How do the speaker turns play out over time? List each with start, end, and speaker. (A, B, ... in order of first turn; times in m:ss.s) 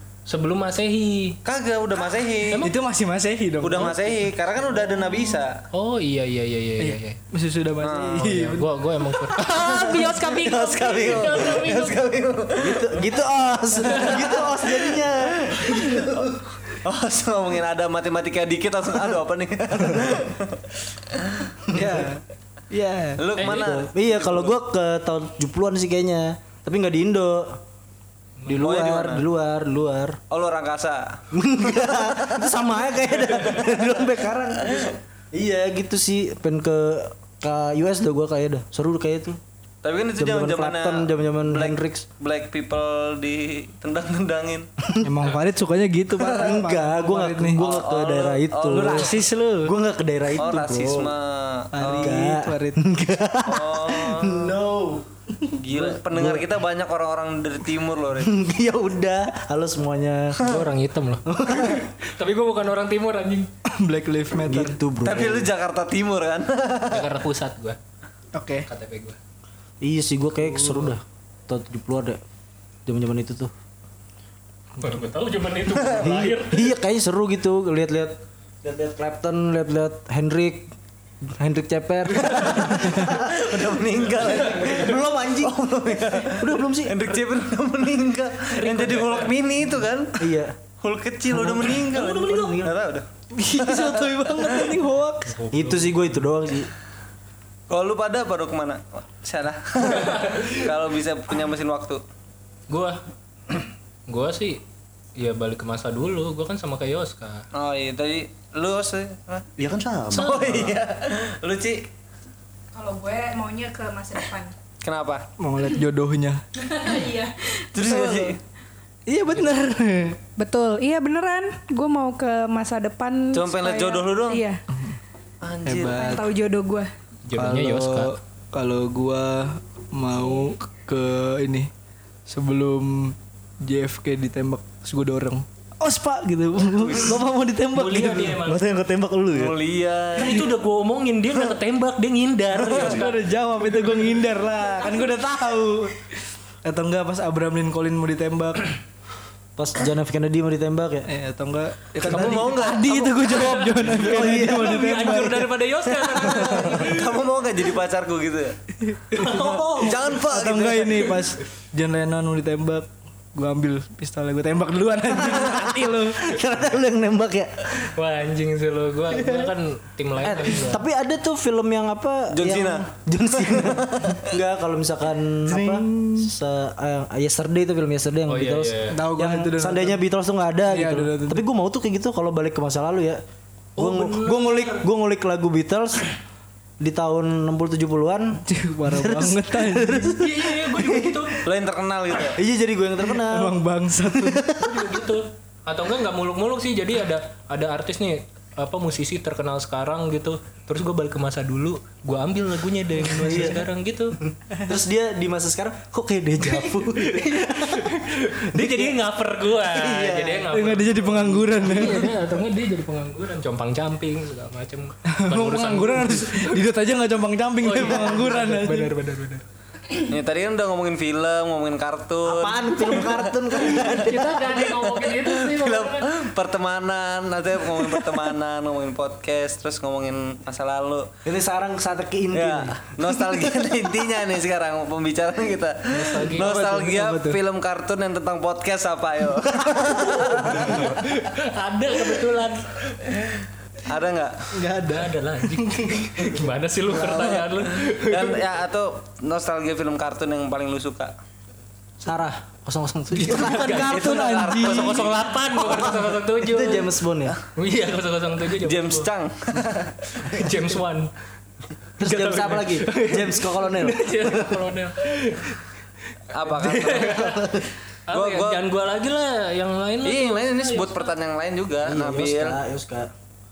0:00.3-0:01.4 A
0:01.4-0:02.6 B
0:02.6-0:04.1 C
0:03.6-0:05.6 B
0:05.7-0:07.2 A
0:06.8-0:08.7 C
0:07.8-0:08.4 B
0:08.3-0:12.0 A
0:09.3-0:13.1 B
0:09.5-0:10.0 D
0:12.6-0:16.3 E
0:13.9-0:20.6 B
0:21.1-0:21.6 B
0:21.7-0:22.0 E
0:21.7-0:22.2 C
0:22.7-0:23.2 C
0:23.2-0:24.6 B
0:23.4-0:23.7 A
0:23.4-0:27.6 E
0:28.5-0:30.2 E
0:28.6-0:29.3 B
0:30.3-0:32.6 B
0:31.3-0:39.4 E
0:33.4-0:33.8 B
0:39.8-0:44.7 B
0:40.2-0:42.0 E
0:44.8-0:45.1 E
0:45.0-0:47.6 C
0:46.2-0:51.1 E
0:47.6-0:49.2 B
0:48.7-0:49.7 C
0:50.3-0:52.2 B
0:51.7-0:52.9 C
0:52.0-0:55.0 E
0:53.4-0:54.6 B
0:55.5-0:58.3 B
0:55.7-0:56.4 E
0:58.2-1:00.5 E
1:00.4-1:03.5 A
1:01.2-1:01.9 E
1:03.7-1:04.8 C
1:04.4-1:05.5 E
1:05.0-1:07.1 B
1:06.9-1:07.8 A
1:08.3-1:08.7 C
1:08.6-1:09.2 A
1:09.8-1:12.2 E
1:12.8-1:13.5 E
1:14.8-1:16.7 A
1:16.0-1:20.7 E
1:21.2-1:27.0 E
1:22.2-1:30.3 B
1:24.3-1:24.9 A
1:28.5-1:29.4 A
1:30.2-1:30.5 E
1:30.8-1:33.0 B
1:31.3-1:32.7 E
1:31.9-1:32.6 A
1:33.3-1:35.4 C
1:33.6-1:34.7 B
1:35.3-1:36.2 A
1:35.5-1:36.7 E
1:37.7-1:42.0 B
1:39.8-1:40.7 A
1:42.7-1:43.0 A
1:44.1-1:44.6 A
1:45.2-1:47.5 A
1:47.5-1:49.5 B
1:49.6-1:50.8 F
1:50.1-1:51.9 B
1:50.1-1:50.6 A
1:52.7-1:54.5 D
1:54.8-1:55.2 B
1:55.4-1:56.4 C
1:56.6-1:58.1 D
1:57.7-1:58.4 B
1:58.0-1:58.3 E
1:59.1-2:00.2 C
2:00.4-2:04.6 D
2:03.3-2:04.4 B
2:05.4-2:06.1 B
2:05.6-2:06.3 C
2:05.9-2:06.9 D
2:07.3-2:08.1 A
2:07.3-2:11.7 C
2:12.3-2:18.4 C
2:16.8-2:17.2 B
2:17.7-2:18.6 A
2:18.4-2:19.6 F
2:19.3-2:20.4 B
2:20.2-2:23.2 A
2:22.7-2:26.0 C
2:26.6-2:28.7 C
2:29.6-2:31.1 E
2:31.1-2:35.5 C
2:32.0-2:33.5 B
2:33.0-2:37.1 A
2:34.0-2:35.1 E
2:36.3-2:38.5 B
2:38.9-2:46.3 C
2:39.1-2:40.0 A
2:39.3-2:41.2 B
2:45.5-2:47.8 E
2:47.8-2:50.8 A
2:50.2-2:50.5 B
2:50.4-3:03.2 E
2:52.3-2:54.2 B
2:55.5-2:56.3 C
2:58.3-2:59.0 A
2:58.9-3:00.0 C
3:00.6-3:01.4 C
3:03.8-3:04.8 A
3:03.8-3:06.1 E
3:06.8-3:11.4 E
3:08.4-3:10.2 C
3:10.1-3:11.4 A
3:11.4-3:12.4 B
3:12.3-3:14.8 E
3:13.2-3:14.5 C
3:14.5-3:24.2 A
3:23.2-3:23.6 E
3:24.2-3:28.0 E
3:26.4-3:36.6 A
3:28.5-3:29.0 E
3:29.6-3:30.5 E
3:30.5-3:32.1 C
3:35.1-3:38.9 C
3:37.6-3:39.4 A
3:40.0-3:51.1 B
3:42.2-3:44.6 E
3:43.7-3:46.1 A
3:51.2-3:53.2 E
3:52.3-4:00.9 B
3:55.9-3:56.5 A
3:56.4-3:57.4 C
4:00.3-4:03.0 A
4:03.8-4:04.4 B
4:04.5-4:06.0 C
4:04.7-4:08.4 A
4:07.0-4:07.4 B
4:07.9-4:11.1 B
4:12.0-4:13.8 E
4:13.2-4:16.9 A
4:13.2-4:15.1 C
4:13.6-4:15.3 B
4:15.6-4:17.4 E
4:17.5-4:19.1 A
4:18.6-4:20.0 B
4:20.2-4:21.1 A
4:22.0-4:24.6 E
4:22.0-4:25.6 A
4:26.3-4:27.5 B
4:26.6-4:31.1 A
4:28.1-4:28.6 B
4:30.0-4:32.6 B
4:31.8-4:33.1 E